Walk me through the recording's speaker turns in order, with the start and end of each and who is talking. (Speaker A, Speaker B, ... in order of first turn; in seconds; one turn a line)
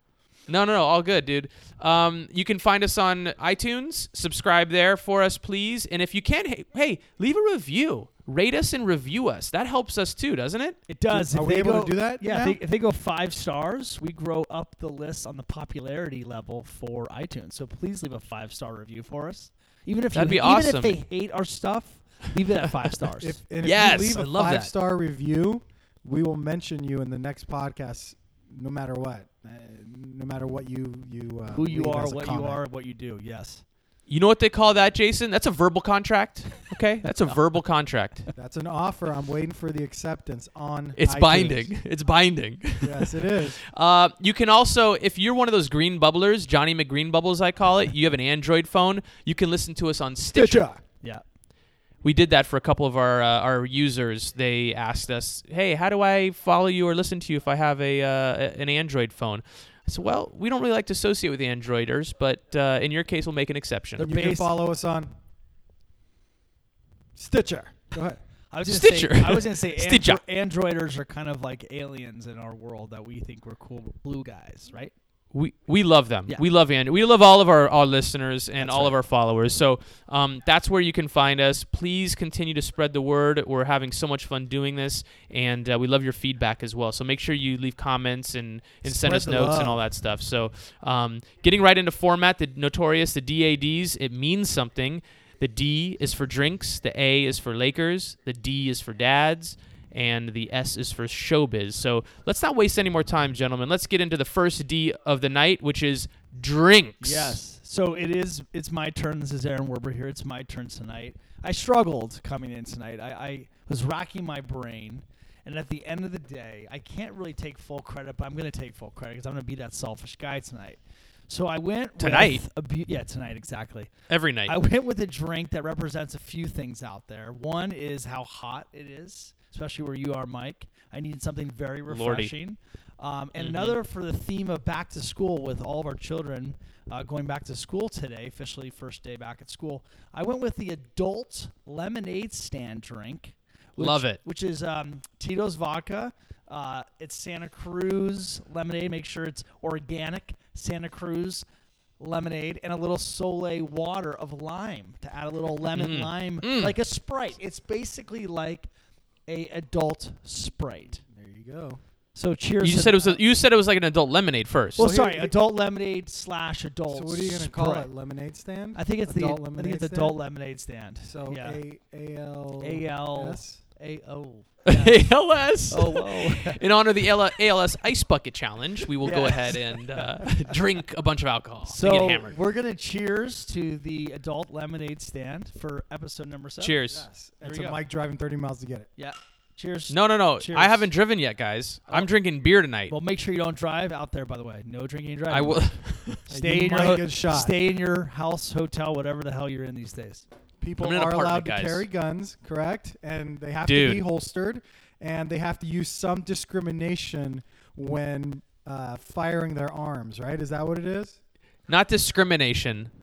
Speaker A: 0.5-10.8
Speaker B: 10.9-23.4
Speaker C: 11.1-12.6
Speaker A: 20.1-21.0
Speaker C: 23.2-32.6
Speaker A: 23.6-24.7
Speaker B: 31.5-33.6
Speaker A: 34.1-38.3
Speaker C: 38.4-41.7
Speaker A: 41.0-50.7
Speaker C: 42.8-43.6
Speaker C: 50.3-50.8
Speaker A: 52.0-64.1
Speaker B: 64.0-64.5
Speaker C: 64.0-65.1
Speaker C: 67.2-68.2
Speaker B: 68.5-74.9
Speaker A: 68.7-70.2
Speaker A: 75.3-107.4
Speaker B: 78.6-79.0
Speaker C: 88.9-89.8
Speaker B: 89.2-89.7
Speaker B: 107.0-123.9
Speaker A: 122.0-122.4
Speaker A: 124.1-124.6
Speaker B: 124.5-151.4
Speaker A: 131.9-132.3
Speaker A: 133.4-133.8
Speaker A: 143.8-144.2
Speaker B: 152.0-158.7
Speaker A: 155.7-156.8
Speaker B: 159.3-161.0
Speaker C: 161.1-161.8
Speaker B: 162.2-163.2
Speaker A: 162.6-164.9
Speaker C: 164.8-165.3
Speaker B: 164.8-167.9
Speaker C: 166.9-170.2
Speaker B: 168.8-171.6
Speaker C: 171.0-173.6
Speaker B: 172.6-175.0
Speaker A: 174.7-182.4
Speaker B: 175.7-176.6
Speaker B: 179.0-180.3
Speaker B: 181.6-186.8
Speaker A: 186.6-187.0
Speaker C: 186.9-188.9
Speaker B: 187.4-187.8
Speaker B: 189.0-190.9
Speaker A: 189.9-192.9
Speaker B: 192.9-200.2
Speaker A: 195.3-196.2
Speaker C: 196.3-197.6
Speaker C: 200.6-211.2
Speaker A: 200.8-201.8
Speaker A: 203.7-204.0
Speaker A: 211.7-212.9